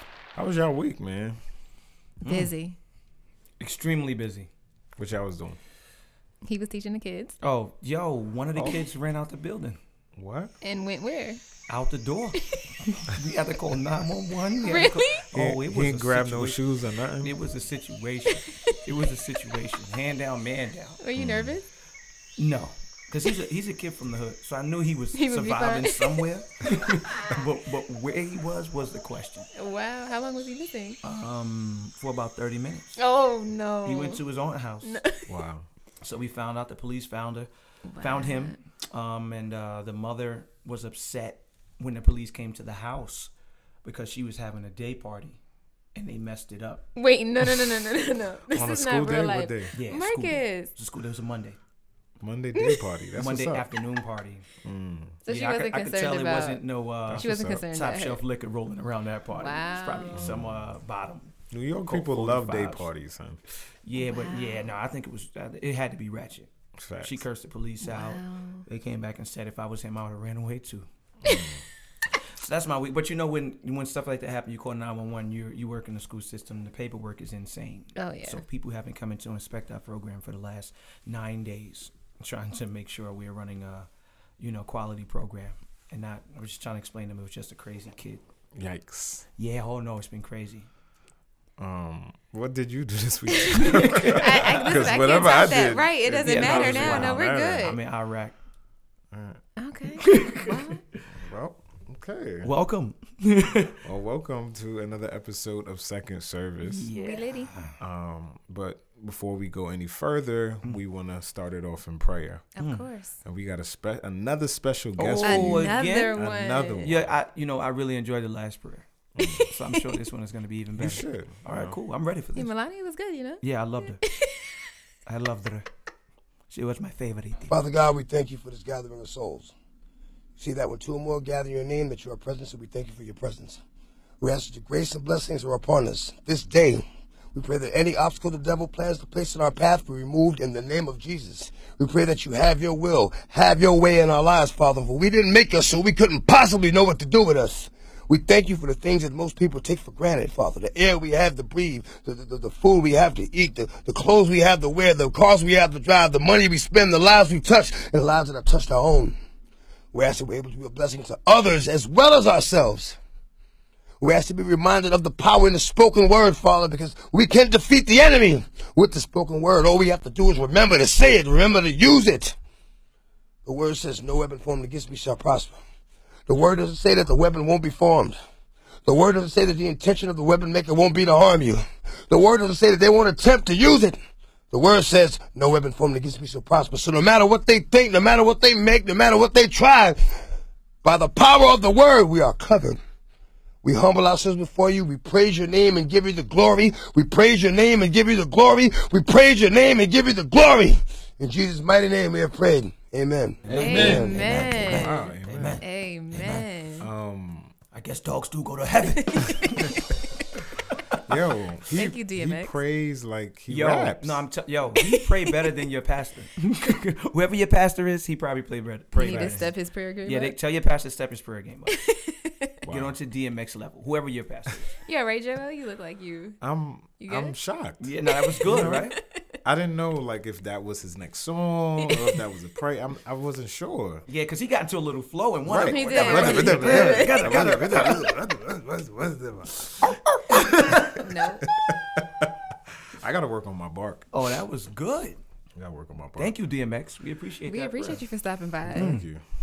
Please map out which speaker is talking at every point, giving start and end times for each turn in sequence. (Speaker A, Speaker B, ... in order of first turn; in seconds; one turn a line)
Speaker A: 0.3-1.4
Speaker B: 2.2-2.5
Speaker C: 2.3-2.8
Speaker B: 3.6-4.5
Speaker A: 5.0-5.6
Speaker C: 6.5-7.4
Speaker B: 7.4-9.8
Speaker A: 10.2-10.5
Speaker C: 10.6-11.4
Speaker B: 11.7-16.6
Speaker C: 14.6-15.2
Speaker A: 15.3-17.4
Speaker B: 17.2-21.0
Speaker C: 18.5-18.8
Speaker C: 21.0-21.7
Speaker A: 21.2-21.6
Speaker B: 22.4-29.5
Speaker C: 25.1-26.2
Speaker C: 26.9-27.4
Speaker C: 29.5-31.0
Speaker B: 31.0-33.0
Speaker C: 33.0-34.2
Speaker B: 33.9-35.0
Speaker C: 34.8-35.3
Speaker A: 35.3-35.7
Speaker B: 36.0-37.5
Speaker C: 37.9-38.6
Speaker B: 38.0-43.3
Speaker B: 43.8-45.4
Speaker B: 46.0-46.9
Speaker C: 47.0-50.7
Speaker A: 48.5-49.7
Speaker B: 49.8-51.6
Speaker A: 52.2-53.7
Speaker C: 52.5-52.8
Speaker B: 53.2-54.5
Speaker A: 54.6-55.2
Speaker C: 55.2-58.2
Speaker B: 55.3-62.9
Speaker A: 57.1-57.7
Speaker C: 59.4-60.3
Speaker A: 60.1-60.7
Speaker A: 61.5-63.4
Speaker B: 63.8-66.5
Speaker C: 64.0-64.8
Speaker A: 66.8-67.3
Speaker B: 67.0-70.9
Speaker C: 67.8-68.7
Speaker A: 71.2-71.6
Speaker C: 71.3-71.5
Speaker B: 72.4-83.9
Speaker C: 78.0-78.4
Speaker B: 84.4-88.2
Speaker A: 88.5-89.3
Speaker B: 89.4-90.7
Speaker A: 91.6-97.8
Speaker C: 93.4-97.8
Speaker B: 93.6-94.8
Speaker B: 96.2-98.3
Speaker A: 99.1-99.4
Speaker C: 99.6-100.8
Speaker B: 100.0-100.8
Speaker A: 101.1-102.5
Speaker B: 102.4-103.8
Speaker A: 103.8-106.9
Speaker B: 106.6-107.8
Speaker C: 107.0-107.5
Speaker A: 107.8-112.5
Speaker C: 112.6-113.2
Speaker B: 112.6-112.9
Speaker A: 113.2-117.2
Speaker B: 115.0-116.2
Speaker C: 115.2-116.9
Speaker B: 116.8-118.9
Speaker A: 119.2-119.5
Speaker C: 119.2-120.0
Speaker B: 119.5-122.5
Speaker A: 120.8-121.8
Speaker C: 122.4-123.4
Speaker B: 123.4-124.0
Speaker C: 124.0-124.5
Speaker B: 125.1-125.7
Speaker B: 126.5-127.5
Speaker D: 127.5-129.5
Speaker D: 130.4-133.6
Speaker D: 134.2-159.2
Speaker D: 159.9-163.0
Speaker D: 164.0-172.4
Speaker D: 173.4-175.6
Speaker D: 176.3-178.2
Speaker D: 178.9-184.0
Speaker D: 184.5-190.0
Speaker D: 190.8-192.8
Speaker D: 193.6-204.5
Speaker B: 203.5-206.4
Speaker C: 203.5-206.9
Speaker A: 204.6-205.6
Speaker A: 206.8-207.5
Speaker B: 207.7-209.8
Speaker C: 208.9-210.0
Speaker A: 211.1-214.2
Speaker C: 211.7-212.6
Speaker B: 213.5-219.5
Speaker C: 214.8-215.3
Speaker C: 219.0-220.4
Speaker A: 219.0-219.5
Speaker B: 220.1-221.8
Speaker C: 221.7-222.5
Speaker A: 222.6-223.0
Speaker B: 222.7-224.7
Speaker C: 224.9-226.4
Speaker A: 226.4-228.9
Speaker C: 227.0-227.4
Speaker B: 227.8-229.0
Speaker C: 228.1-229.2
Speaker A: 229.4-234.1
Speaker C: 231.8-232.2
Speaker B: 234.1-238.1
Speaker A: 235.4-244.2
Speaker C: 235.6-237.4
Speaker B: 240.3-241.0
Speaker C: 240.4-241.5
Speaker B: 244.1-245.2
Speaker A: 245.6-246.3
Speaker B: 246.2-248.0
Speaker C: 247.5-249.0
Speaker A: 248.7-249.2
Speaker B: 248.7-249.1